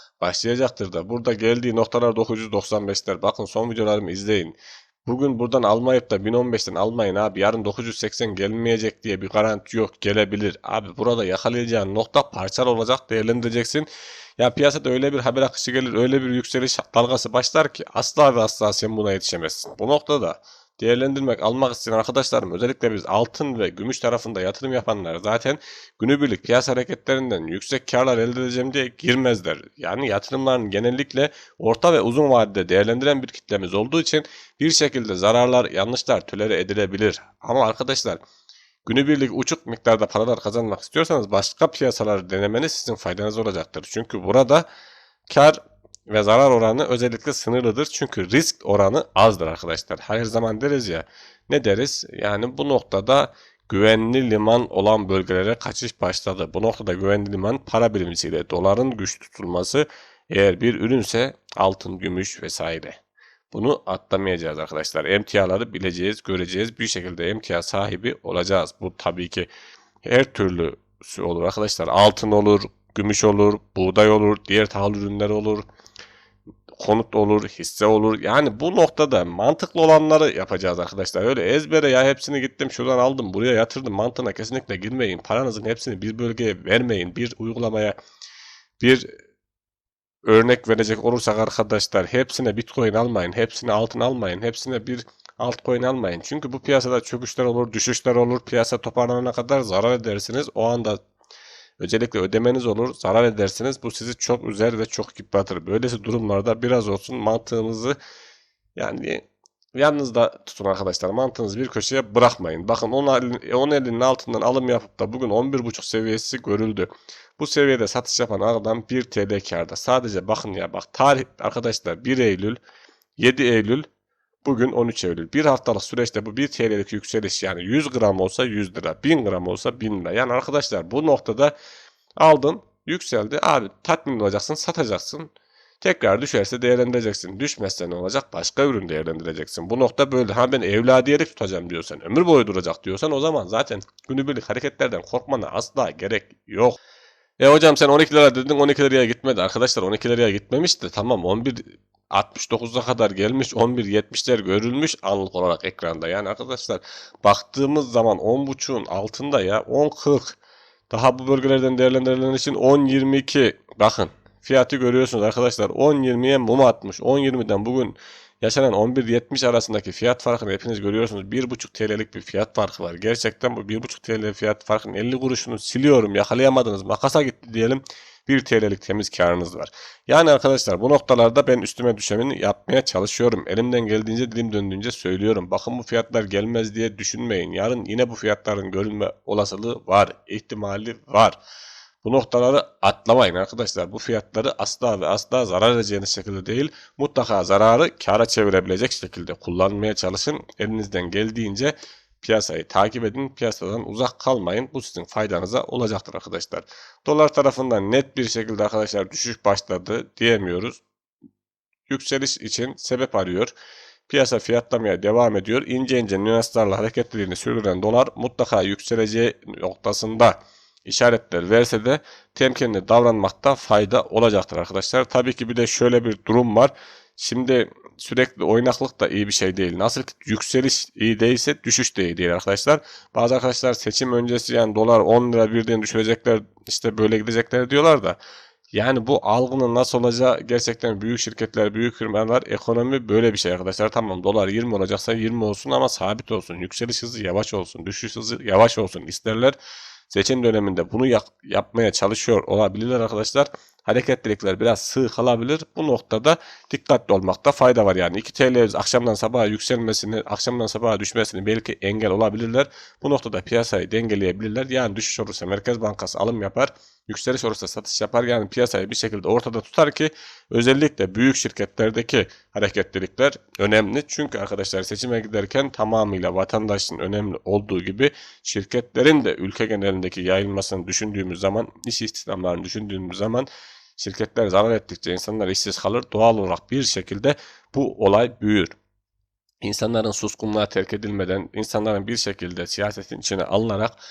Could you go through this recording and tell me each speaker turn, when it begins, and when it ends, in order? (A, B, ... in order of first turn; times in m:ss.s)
0:00.2-0:38.2 A
0:38.8-0:44.6 A
0:45.3-1:03.0 A
1:03.5-1:09.5 A
1:10.0-1:15.6 A
1:16.7-1:28.0 A
1:28.8-1:29.1 A
1:30.2-1:41.0 A
1:41.8-1:48.0 A
1:48.8-2:02.6 A
2:03.2-2:03.8 A
2:04.4-2:11.5 A
2:12.2-2:26.8 A
2:27.4-2:40.4 A
2:40.9-3:11.4 A
3:12.0-3:30.8 A
3:31.9-3:33.5 A
3:34.1-3:58.2 A
3:58.7-4:09.6 A
4:10.1-4:48.7 A
4:49.6-4:54.0 A